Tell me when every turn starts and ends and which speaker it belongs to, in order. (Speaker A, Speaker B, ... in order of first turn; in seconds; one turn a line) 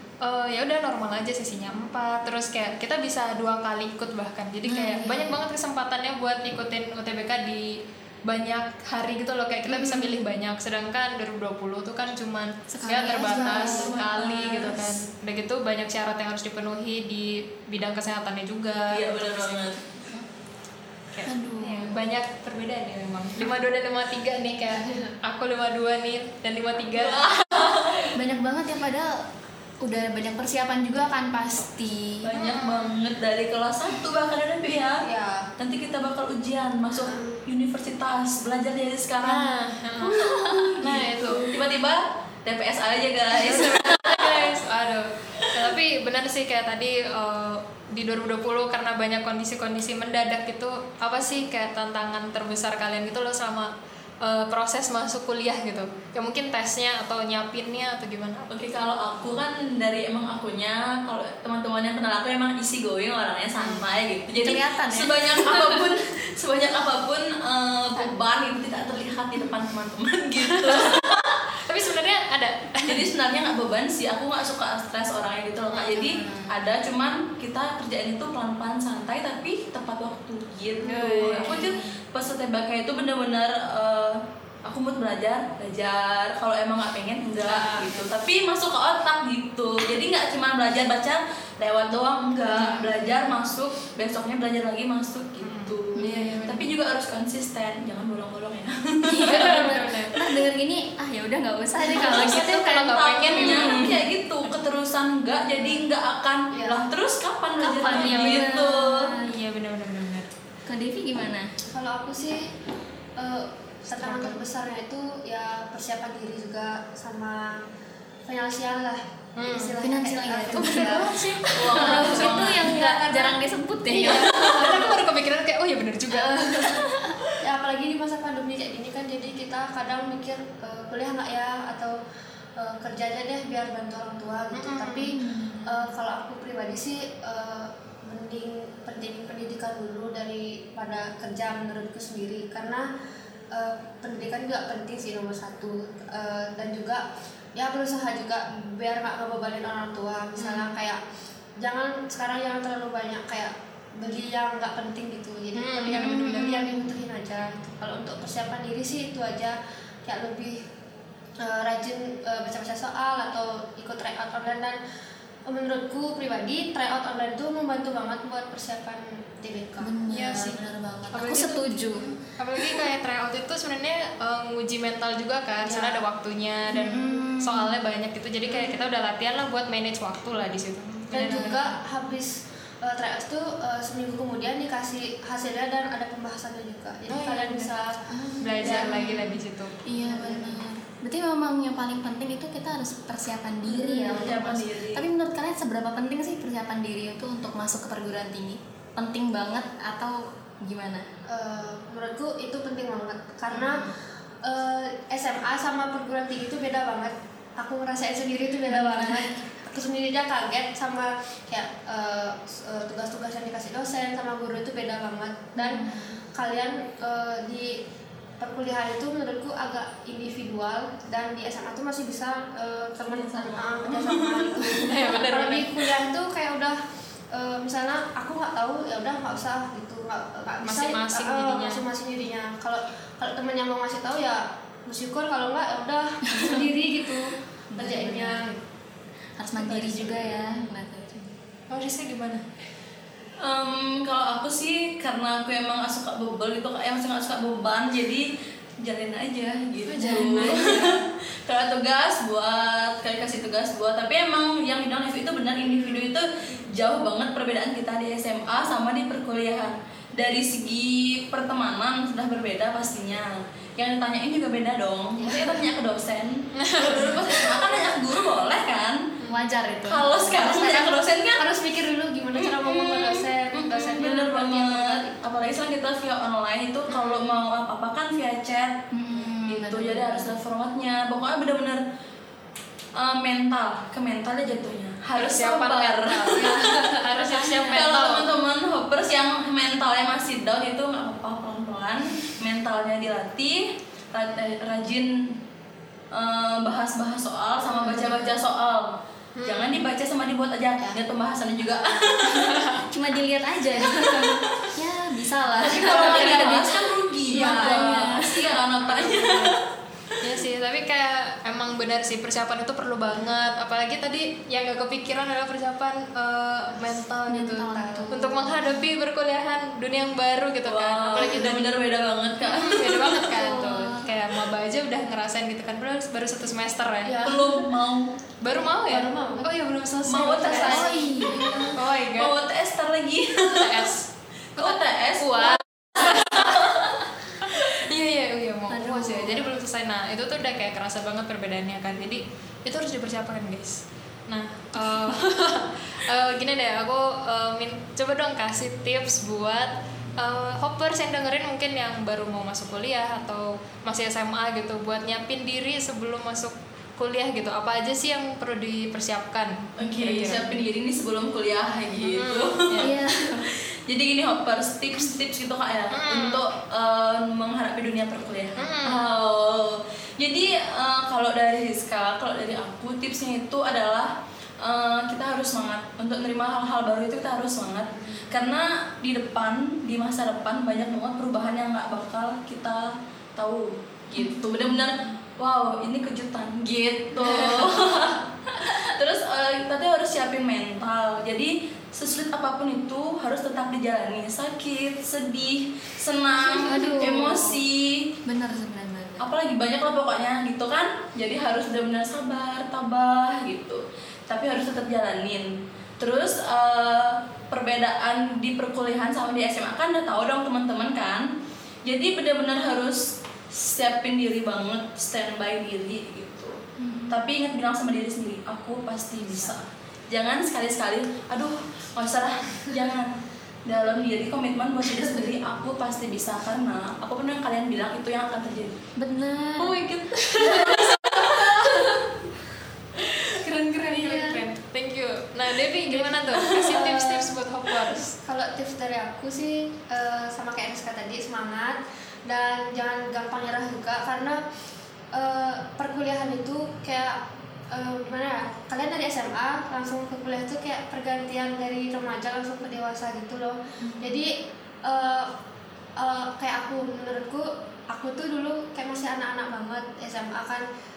Speaker A: 0.2-19.8
Speaker B: 4.7-5.4
Speaker B: 9.7-10.2
Speaker B: 12.7-14.9
Speaker C: 13.2-14.8
Speaker C: 18.9-19.8
Speaker A: 21.1-27.7
Speaker B: 21.3-22.0
Speaker C: 26.9-28.1
Speaker B: 28.1-29.2
Speaker B: 29.8-32.3
Speaker C: 32.2-35.1
Speaker A: 32.4-33.0
Speaker D: 35.0-35.5
Speaker C: 35.6-39.5
Speaker D: 37.0-37.4
Speaker A: 39.2-40.2
Speaker B: 40.0-40.9
Speaker A: 40.8-41.5
Speaker C: 40.8-44.6
Speaker A: 43.4-53.7
Speaker A: 54.2-58.5
Speaker C: 58.5-71.4
Speaker A: 63.6-63.8
Speaker B: 64.4-65.9
Speaker A: 71.7-73.1
Speaker C: 72.8-99.7
Speaker B: 75.7-76.6
Speaker A: 80.8-81.7
Speaker B: 81.1-82.0
Speaker A: 87.4-88.1
Speaker B: 92.5-92.9
Speaker A: 92.5-92.9
Speaker A: 95.4-96.7
Speaker B: 96.0-96.5
Speaker B: 99.1-102.7
Speaker A: 99.2-100.1
Speaker A: 101.8-103.9
Speaker C: 101.9-109.1
Speaker B: 103.3-104.0
Speaker D: 106.5-106.9
Speaker B: 107.6-109.2
Speaker A: 107.6-108.6
Speaker A: 109.2-110.3
Speaker B: 110.7-111.5
Speaker D: 111.7-112.5
Speaker D: 113.2-117.6
Speaker A: 114.0-114.4
Speaker D: 118.3-121.1
Speaker A: 119.4-119.7
Speaker B: 119.8-125.0
Speaker A: 120.5-122.8
Speaker C: 121.5-122.7
Speaker D: 121.8-123.4
Speaker A: 123.9-126.8
Speaker B: 126.1-127.2
Speaker D: 127.4-131.9
Speaker D: 132.6-135.1
Speaker A: 134.5-135.1
Speaker B: 135.2-135.9
Speaker D: 135.7-142.9
Speaker D: 143.5-147.1
Speaker D: 147.6-151.0
Speaker B: 150.4-150.7
Speaker D: 151.6-160.6
Speaker A: 155.6-156.2
Speaker B: 155.9-157.0
Speaker D: 161.4-164.8
Speaker D: 165.5-169.9
Speaker B: 169.8-172.8
Speaker A: 170.1-170.6
Speaker A: 171.1-181.7
Speaker D: 175.6-176.0
Speaker B: 176.7-177.8
Speaker D: 178.5-178.8
Speaker D: 181.1-187.9
Speaker B: 181.2-181.6
Speaker A: 187.1-187.7
Speaker B: 188.1-201.1
Speaker A: 188.4-189.8
Speaker D: 188.6-189.1
Speaker D: 190.0-190.6
Speaker D: 193.8-194.2
Speaker C: 194.0-195.1
Speaker D: 201.3-217.8
Speaker B: 203.5-203.9
Speaker B: 208.7-209.3
Speaker B: 215.6-216.2
Speaker D: 218.4-226.8
Speaker C: 223.0-224.8
Speaker A: 224.8-225.9
Speaker D: 227.3-238.6
Speaker A: 230.6-231.8
Speaker B: 236.4-236.7
Speaker B: 237.7-238.5
Speaker B: 239.4-241.3
Speaker D: 239.6-240.6
Speaker A: 241.7-242.4
Speaker C: 243.4-248.3
Speaker C: 248.8-269.0
Speaker B: 249.9-251.0
Speaker B: 265.2-265.6
Speaker A: 266.6-267.2
Speaker B: 269.3-270.6
Speaker C: 269.8-271.4
Speaker D: 270.3-275.1
Speaker C: 272.4-278.8
Speaker B: 278.9-280.4
Speaker C: 279.4-281.8
Speaker C: 282.9-286.7
Speaker A: 285.2-288.3
Speaker B: 286.4-287.9
Speaker C: 287.6-295.4
Speaker C: 296.1-298.9
Speaker B: 297.6-298.4
Speaker A: 299.4-299.9
Speaker C: 299.4-302.7
Speaker A: 302.1-302.8
Speaker B: 302.9-309.5
Speaker C: 303.9-304.7
Speaker C: 305.6-309.6
Speaker A: 305.8-306.7
Speaker A: 307.3-308.3
Speaker A: 309.0-309.5
Speaker A: 310.2-321.7
Speaker B: 317.3-318.9
Speaker D: 317.7-318.1
Speaker C: 320.7-323.3
Speaker B: 321.1-321.5
Speaker A: 322.4-327.3
Speaker B: 323.0-324.1
Speaker D: 327.0-327.7
Speaker C: 327.2-328.1
Speaker A: 328.4-330.9
Speaker D: 328.9-329.5
Speaker C: 330.1-333.9
Speaker D: 330.4-331.7
Speaker B: 330.5-331.6
Speaker A: 331.7-332.3
Speaker A: 333.4-336.7
Speaker C: 334.6-337.0
Speaker A: 337.4-360.6
Speaker B: 338.7-339.6
Speaker C: 359.8-398.1
Speaker A: 362.1-362.9
Speaker B: 362.8-363.5
Speaker A: 365.9-366.4
Speaker A: 368.6-369.1
Speaker B: 384.1-385.1
Speaker B: 387.1-388.9
Speaker B: 396.4-397.6
Speaker B: 398.3-399.3
Speaker C: 399.2-411.3
Speaker C: 411.9-416.6
Speaker B: 416.8-417.2
Speaker C: 417.1-423.1
Speaker C: 423.6-428.8
Speaker B: 424.9-425.3
Speaker B: 429.0-429.9
Speaker C: 429.6-432.0
Speaker A: 430.2-432.0
Speaker B: 430.4-430.8
Speaker A: 433.3-438.2
Speaker B: 433.9-434.4
Speaker D: 436.7-437.2
Speaker D: 438.2-444.4
Speaker D: 445.1-454.3
Speaker B: 453.8-454.2
Speaker D: 454.9-455.3
Speaker D: 456.0-460.6